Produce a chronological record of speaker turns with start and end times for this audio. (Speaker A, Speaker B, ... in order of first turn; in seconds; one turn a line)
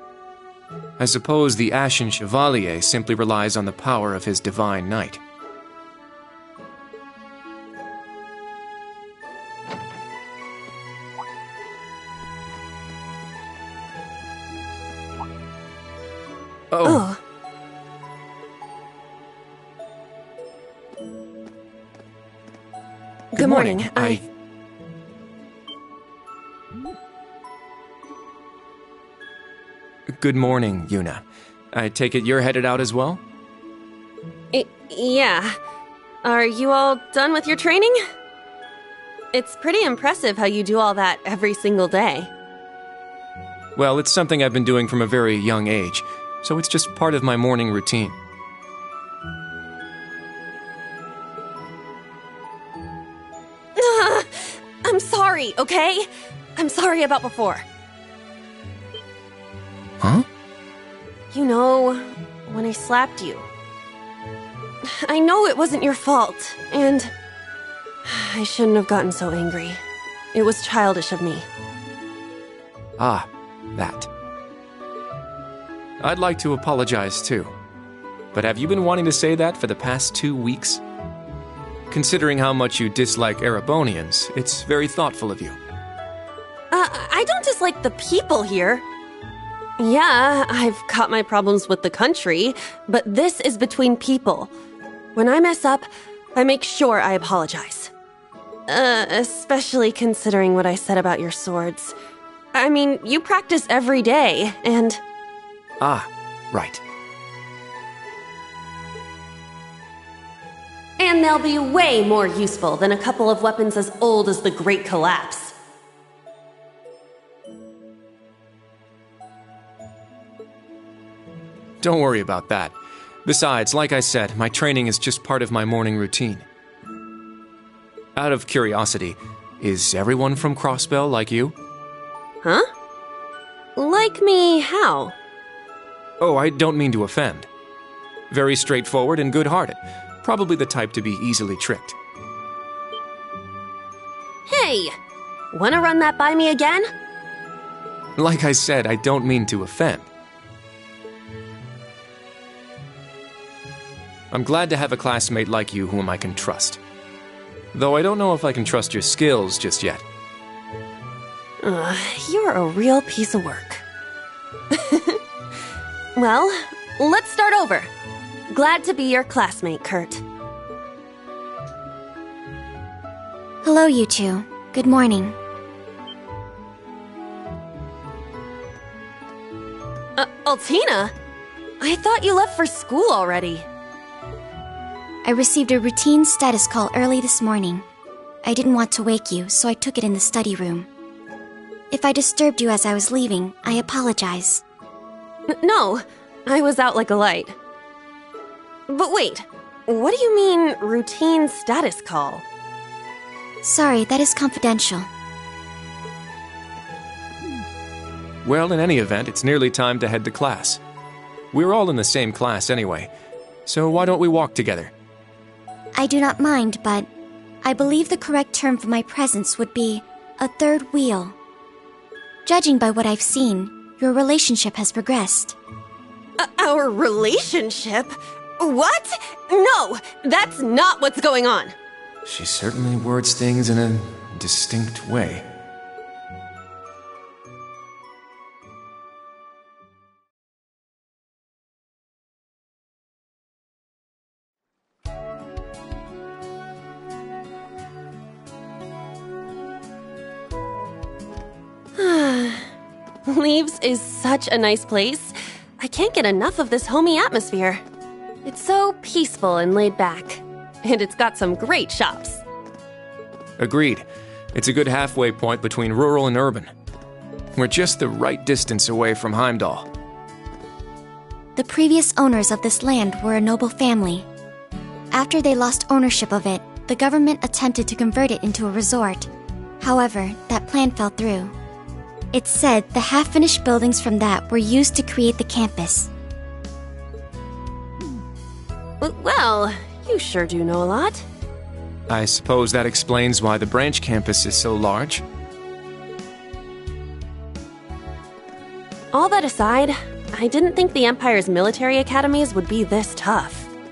Speaker A: 1.0-5.2
Speaker A: 16.7-17.0
Speaker B: 16.8-17.2
Speaker B: 23.3-24.2
Speaker A: 23.4-24.2
Speaker A: 30.1-33.2
Speaker B: 34.5-35.6
Speaker B: 36.2-38.0
Speaker B: 39.3-42.3
Speaker A: 43.8-48.2
Speaker B: 53.8-57.6
Speaker B: 61.3-63.5
Speaker B: 64.8-67.1
Speaker B: 68.0-69.8
Speaker B: 70.3-71.5
Speaker A: 73.0-74.1
Speaker A: 76.0-77.5
Speaker A: 78.3-80.8
Speaker A: 81.9-85.6
Speaker B: 86.7-88.8
Speaker B: 89.8-94.5
Speaker B: 95.2-97.9
Speaker B: 98.7-102.0
Speaker B: 102.5-105.0
Speaker A: 105.8-106.8
Speaker B: 111.0-115.5
Speaker A: 121.8-126.5
Speaker A: 128.2-131.6
Speaker B: 132.4-132.7
Speaker B: 133.8-135.2
Speaker A: 136.2-137.5
Speaker A: 138.3-142.0
Speaker B: 144.5-144.9
Speaker B: 145.5-146.9
Speaker A: 148.2-150.1
Speaker A: 154.3-156.8
Speaker A: 157.7-160.0
Speaker B: 161.6-163.8
Speaker B: 164.7-165.2
Speaker B: 166.2-167.9
Speaker B: 168.5-170.2
Speaker C: 173.6-175.4
Speaker B: 180.2-181.1
Speaker B: 181.8-183.7
Speaker C: 185.2-187.8
Speaker C: 188.4-190.9
Speaker C: 191.9-194.6
Speaker B: 195.5-197.6
Speaker B: 198.9-202.4
Speaker C: 203.6-205.1
Speaker A: 208.4-210.8
Speaker A: 211.5-213.1
Speaker A: 213.7-214.9
Speaker C: 215.9-217.1
Speaker C: 217.6-221.3
Speaker C: 222.4-225.6
Speaker B: 226.4-231.8
Speaker A: 232.2-235.4
Speaker B: 252.0-252.7
Speaker B: 253.3-257.8
Speaker B: 258.4-262.4
Speaker A: 263.6-266.7
Speaker A: 267.6-269.9
Speaker C: 271.6-274.3
Speaker C: 275.1-281.6
Speaker C: 282.3-286.1
Speaker B: 289.0-291.3
Speaker A: 292.1-295.2
Speaker B: 299.1-303.7